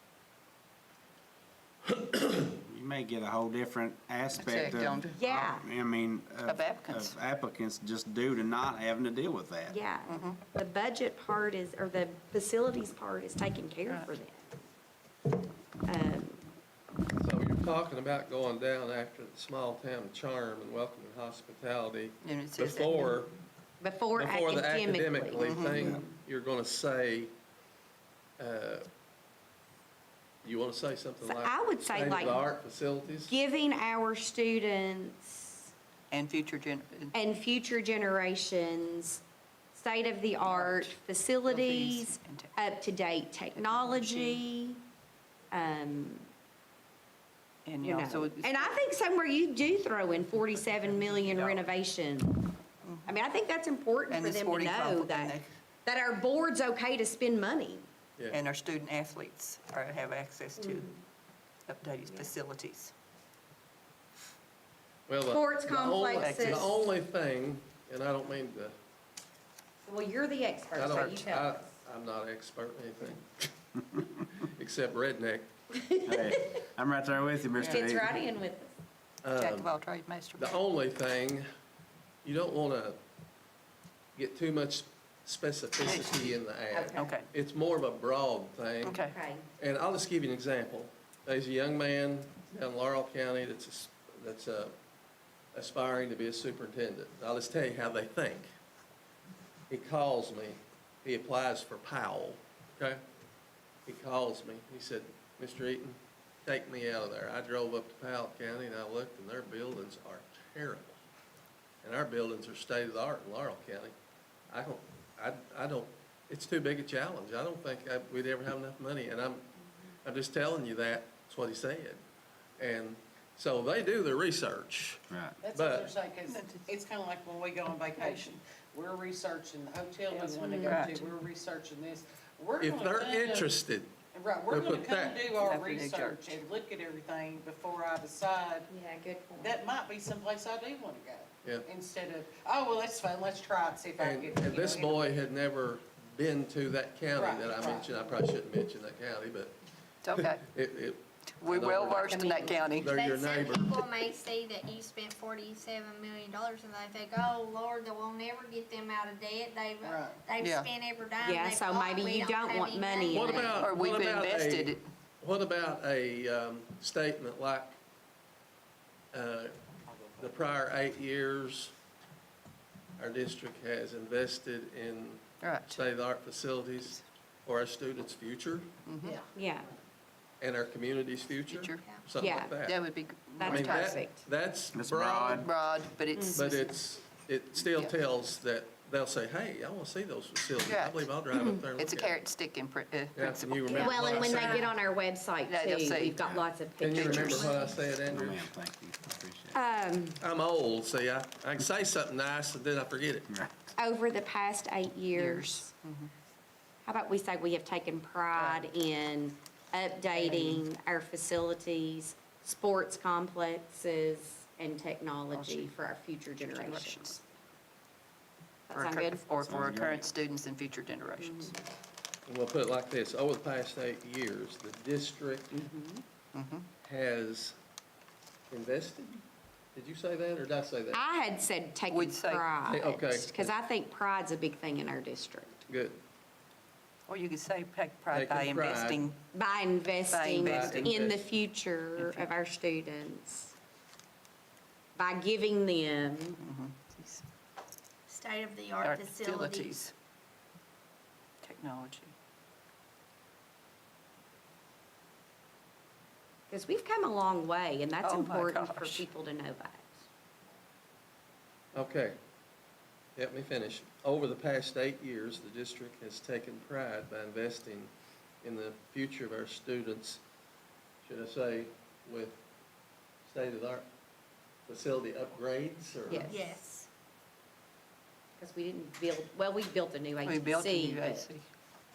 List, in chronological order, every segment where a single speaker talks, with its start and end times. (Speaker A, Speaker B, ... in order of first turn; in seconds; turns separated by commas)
Speaker A: 2.5-9.7, Speaker B: 4.3-5.5, Speaker C: 5.1-5.7, Speaker B: 6.5-7.1, Speaker C: 9.7-14.5, Speaker B: 10.1-10.4, Speaker C: 15.8-16.4, Speaker D: 17.1-23.3, Speaker B: 22.2-23.2, Speaker C: 23.8-26.1, Speaker D: 24.1-27.3, Speaker B: 25.4-25.9, Speaker D: 28.4-28.9, Speaker D: 30.4-33.3, Speaker C: 31.2-32.5, Speaker C: 33.3-35.7, Speaker B: 36.1-37.1, Speaker C: 37.1-39.2, Speaker C: 39.7-44.8, Speaker B: 40.4-40.9, Speaker B: 41.5-42.5, Speaker B: 43.5-44.4, Speaker C: 45.5-46.3, Speaker B: 47.6-48.8, Speaker C: 47.8-52.5, Speaker D: 51.2-51.6, Speaker C: 53.0-57.9, Speaker B: 54.1-55.5, Speaker B: 58.3-61.0, Speaker C: 60.6-61.0, Speaker B: 61.7-62.9, Speaker D: 65.1-68.7, Speaker C: 65.3-66.7, Speaker B: 66.2-66.7, Speaker C: 69.8-71.7, Speaker D: 70.7-75.5, Speaker B: 70.9-71.1, Speaker C: 75.7-76.6, Speaker A: 76.0-78.2, Speaker C: 77.6-78.7, Speaker D: 79.2-79.7, Speaker B: 79.3-80.6, Speaker D: 80.4-81.4, Speaker D: 82.2-83.0, Speaker D: 84.2-89.0, Speaker B: 85.8-86.4, Speaker C: 86.7-87.1, Speaker B: 86.9-87.2, Speaker B: 88.8-89.1, Speaker C: 89.0-89.5, Speaker D: 89.6-94.7, Speaker D: 95.5-98.5, Speaker D: 99.7-103.0, Speaker D: 103.8-111.0, Speaker D: 111.8-113.9, Speaker D: 114.5-119.5, Speaker D: 120.0-122.0, Speaker D: 122.6-125.9, Speaker A: 125.1-125.4, Speaker E: 125.4-133.5, Speaker B: 126.2-126.7, Speaker B: 128.0-128.4, Speaker B: 130.1-131.1, Speaker C: 130.4-130.8, Speaker D: 132.6-134.0, Speaker E: 134.1-138.7, Speaker D: 134.5-135.2, Speaker B: 135.3-136.2, Speaker C: 138.7-139.6, Speaker E: 139.4-145.2, Speaker D: 144.0-149.6, Speaker E: 147.1-148.1, Speaker B: 150.0-150.4, Speaker D: 150.1-153.9, Speaker B: 151.4-152.9, Speaker C: 152.1-152.6, Speaker F: 152.8-163.7, Speaker E: 159.8-160.2, Speaker B: 160.4-160.7, Speaker C: 161.2-163.6, Speaker D: 163.1-167.8, Speaker B: 163.6-164.8, Speaker D: 169.1-169.5, Speaker D: 170.2-171.7, Speaker D: 173.0-178.7, Speaker B: 175.4-175.9, Speaker B: 178.8-179.2, Speaker C: 179.3-179.7, Speaker D: 180.4-182.8, Speaker B: 181.5-181.8, Speaker C: 182.2-182.6, Speaker B: 182.6-184.0, Speaker C: 183.4-184.2, Speaker D: 183.4-185.4, Speaker A: 184.7-185.5, Speaker B: 185.2-186.7, Speaker C: 186.1-186.4, Speaker D: 186.3-192.2, Speaker B: 187.6-187.9, Speaker B: 190.6-194.7, Speaker C: 191.3-191.6, Speaker D: 193.2-194.7, Speaker C: 193.7-197.7, Speaker B: 195.5-196.2, Speaker A: 196.2-196.5, Speaker D: 196.8-198.5, Speaker B: 196.9-197.5, Speaker A: 197.6-199.6, Speaker C: 199.5-200.2, Speaker D: 200.2-203.3, Speaker A: 203.3-203.5, Speaker C: 203.8-205.7, Speaker B: 205.1-206.1, Speaker C: 206.8-217.2, Speaker B: 208.3-208.6, Speaker B: 210.1-210.6, Speaker B: 215.3-215.7, Speaker B: 216.5-217.2, Speaker C: 218.7-219.2, Speaker B: 218.7-221.5, Speaker A: 219.4-220.1, Speaker C: 221.2-221.5, Speaker D: 222.3-225.6, Speaker C: 225.5-226.0, Speaker B: 226.3-226.7, Speaker D: 226.8-227.6, Speaker D: 228.5-229.2, Speaker D: 229.7-231.0, Speaker C: 230.9-235.6, Speaker B: 231.9-232.5, Speaker D: 232.6-233.5, Speaker D: 235.7-236.0, Speaker B: 237.1-239.2, Speaker D: 238.1-239.1, Speaker C: 239.3-243.5, Speaker B: 240.1-241.1, Speaker D: 240.4-241.2, Speaker B: 242.0-242.3, Speaker C: 244.9-246.4, Speaker B: 246.4-247.2, Speaker F: 248.1-249.8, Speaker B: 248.8-249.9, Speaker B: 251.4-252.1, Speaker C: 256.5-259.9, Speaker B: 258.0-259.0, Speaker D: 261.7-262.2, Speaker D: 263.1-267.9, Speaker D: 268.4-270.2, Speaker D: 271.0-272.4, Speaker D: 273.2-273.9, Speaker D: 274.7-276.4, Speaker C: 276.1-276.3, Speaker F: 276.2-276.9, Speaker C: 278.4-281.2, Speaker B: 280.2-281.4